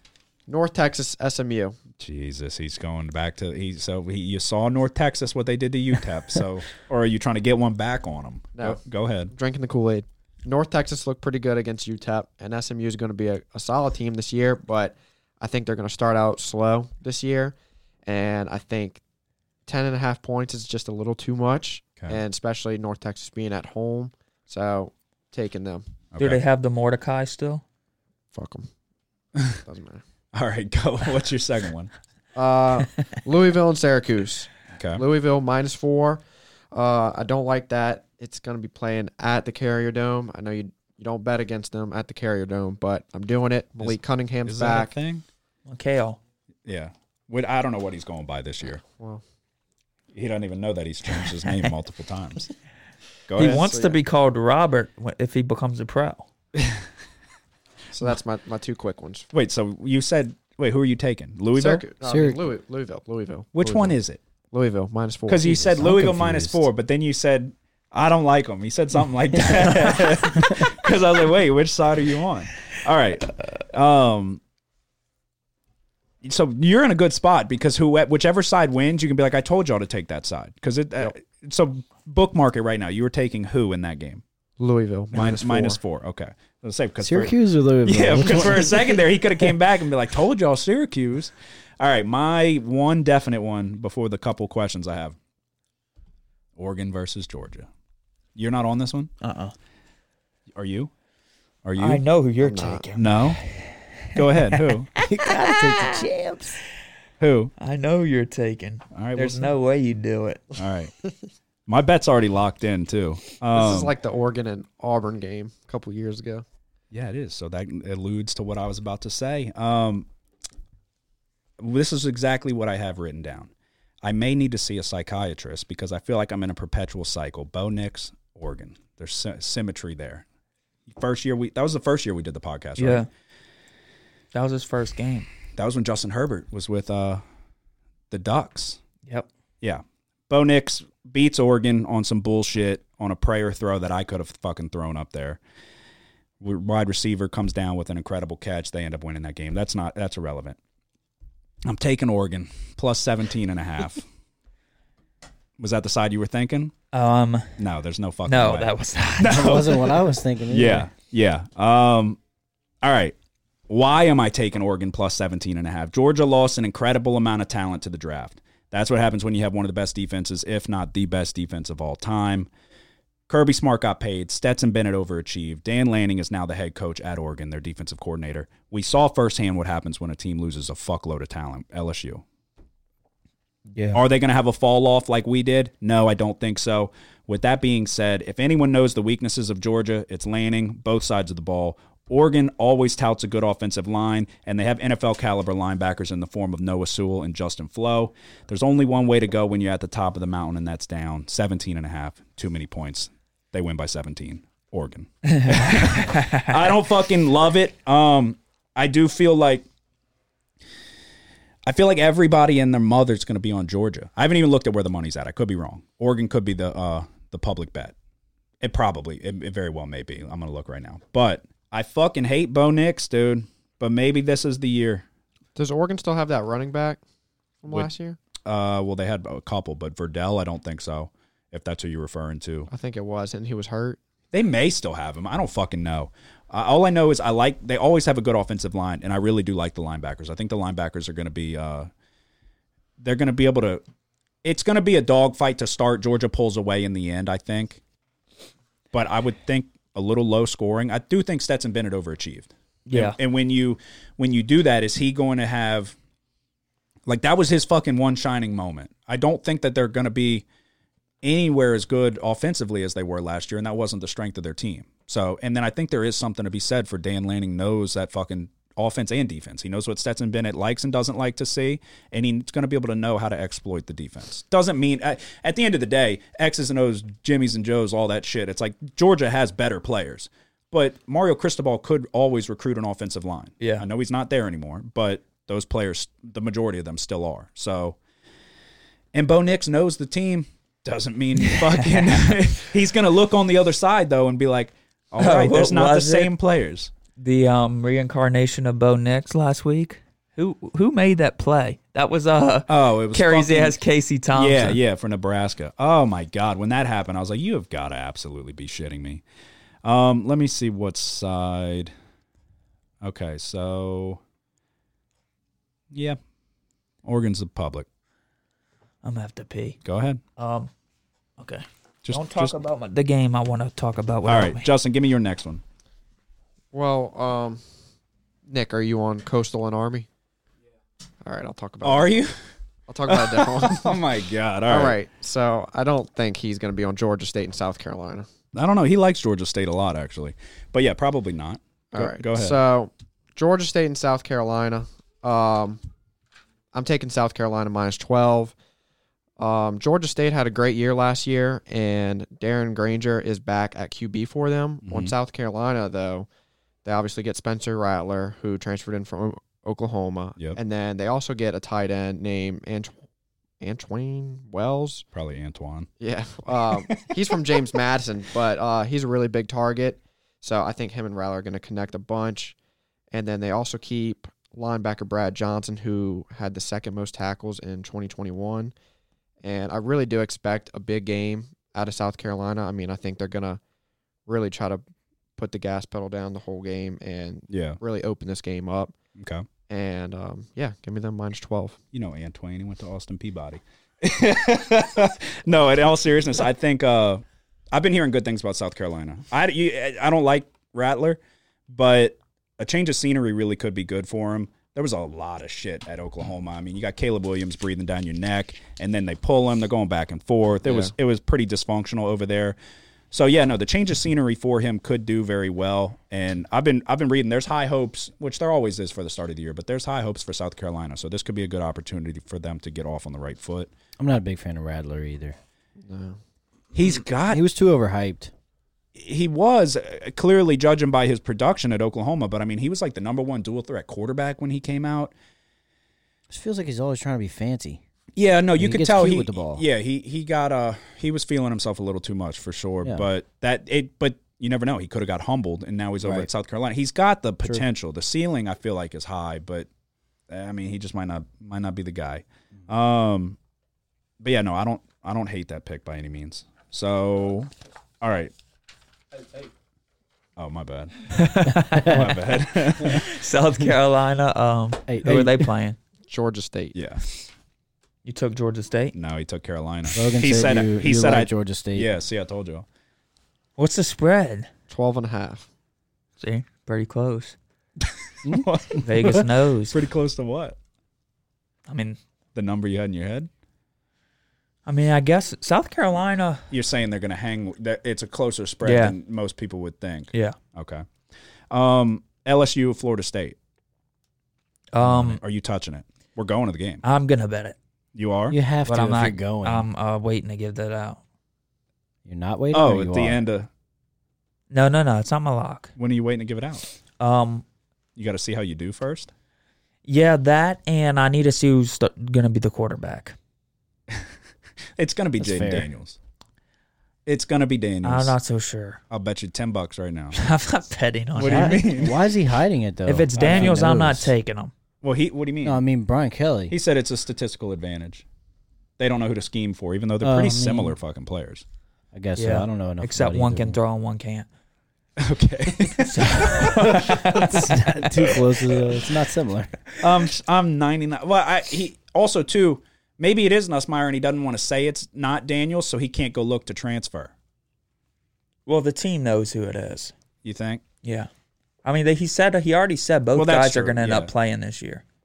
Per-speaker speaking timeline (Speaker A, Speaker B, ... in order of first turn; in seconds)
Speaker A: 0.5-1.8, 9.3-19.0, 19.7-25.9, 28.3-28.7, 29.6-30.0, 32.4-44.9, 48.8-49.2, 53.4-54.0, 57.9-59.3, 61.5-64.0, 64.5-65.7, 84.6-85.8, 102.4-102.8, 113.5-116.5, 225.6-227.0, 227.6-228.2, 232.7-234.0, 326.7-327.6, 328.5-330.1, 331.2-332.2, 332.9-334.0, 334.7-338.3, 341.9-345.8, 346.7-348.6, 349.4-356.3, 356.8-362.9, 363.6-365.1, 366.0-372.6, 373.1-378.7, 379.4-383.6, 384.3-384.8, 385.4-388.9, 389.7-391.8, 410.6-410.9, 425.8-426.2, 466.1-466.8, 474.7-475.5
Speaker B: 2.0-9.3, 26.1-26.4, 30.3-31.9, 34.8-35.0, 43.8-45.2, 46.7-48.8, 50.1-52.5, 53.3-53.7, 56.5-56.8, 59.3-61.9, 63.5-64.2, 65.3-74.4, 76.2-84.2, 85.1-95.2, 96.6-97.7, 98.3-99.1, 100.5-100.9, 101.6-102.0, 103.0-103.4, 104.1-104.9, 107.2-107.5, 108.9-109.5, 110.6-110.9, 111.7-114.0, 116.9-120.1, 121.6-123.5, 124.0-130.2, 130.9-133.1, 135.6-137.2, 138.1-138.8, 139.6-145.4, 146.4-150.6, 151.7-154.1, 155.6-156.7, 157.6-162.2, 162.8-163.2, 163.7-172.5, 173.3-182.2, 183.9-209.7, 211.7-217.9, 218.6-225.0, 228.4-232.7, 234.3-241.9, 243.0-243.8, 244.4-247.8, 248.9-256.0, 257.1-260.4, 261.2-288.0, 289.1-296.9, 302.7-303.8, 304.3-309.2, 309.8-311.9, 313.0-314.2, 315.9-316.2, 317.0-317.9, 319.9-320.2, 322.0-322.6, 324.2-325.6, 331.8-332.4, 333.1-335.0, 338.5-342.6, 354.8-355.1, 365.1-365.9, 366.5-367.1, 387.5-387.8, 389.2-389.4, 391.9-412.6, 413.1-423.7, 426.7-427.4, 428.9-435.1, 438.2-449.7, 450.3-453.4, 454.2-458.3, 460.4-460.9, 461.8-463.1, 466.7-467.2, 468.9-472.7, 478.3-480.6, 482.4-483.3, 486.5-490.9, 491.5-493.4, 494.8-496.8, 497.9-498.4, 502.5-503.5, 505.8-506.7, 508.0-509.1, 514.8-516.0, 517.1-518.2, 518.9-520.2, 521.2-522.0, 523.2-523.6, 524.8-525.6, 526.5-528.1, 528.8-531.4, 535.0-538.2, 539.8-547.1, 550.2-550.6, 553.1-554.1
Speaker C: 26.2-27.6, 45.7-46.2, 53.4-56.3, 99.2-99.5, 101.8-106.1, 107.6-110.4, 132.8-133.1, 134.3-135.3, 156.9-157.6, 158.3-159.6, 183.7-184.0, 205.3-206.6, 252.9-253.2, 283.6-283.9, 291.4-292.1, 295.2-296.3, 297.2-304.8, 319.0-319.8, 320.4-320.7, 321.4-324.7, 461.1-462.1, 462.8-465.8, 468.1-468.9, 473.6-474.5, 476.2-477.4, 478.8-479.8, 481.7-482.0, 484.7-486.5, 488.6-489.0, 494.7-495.2, 496.8-497.6, 498.7-501.0, 504.5-505.7, 507.0-507.4, 509.9-513.2, 517.8-518.8, 520.1-521.9, 522.9-524.5, 532.2-534.3, 535.8-537.5, 548.5-549.9, 550.8-551.1, 551.6-554.8
Speaker D: 62.0-62.4, 65.5-66.7, 87.0-89.0, 105.0-106.6, 159.3-160.9, 424.0-425.4, 427.3-428.3, 436.3-437.8, 438.6-439.6, 446.0-446.3, 461.5-462.0, 464.9-465.5, 469.9-471.9, 478.2-478.8, 498.3-499.7, 502.1-503.2, 515.2-515.7, 521.2-524.1, 525.4-526.6, 530.0-530.8, 531.9-533.6, 536.3-539.6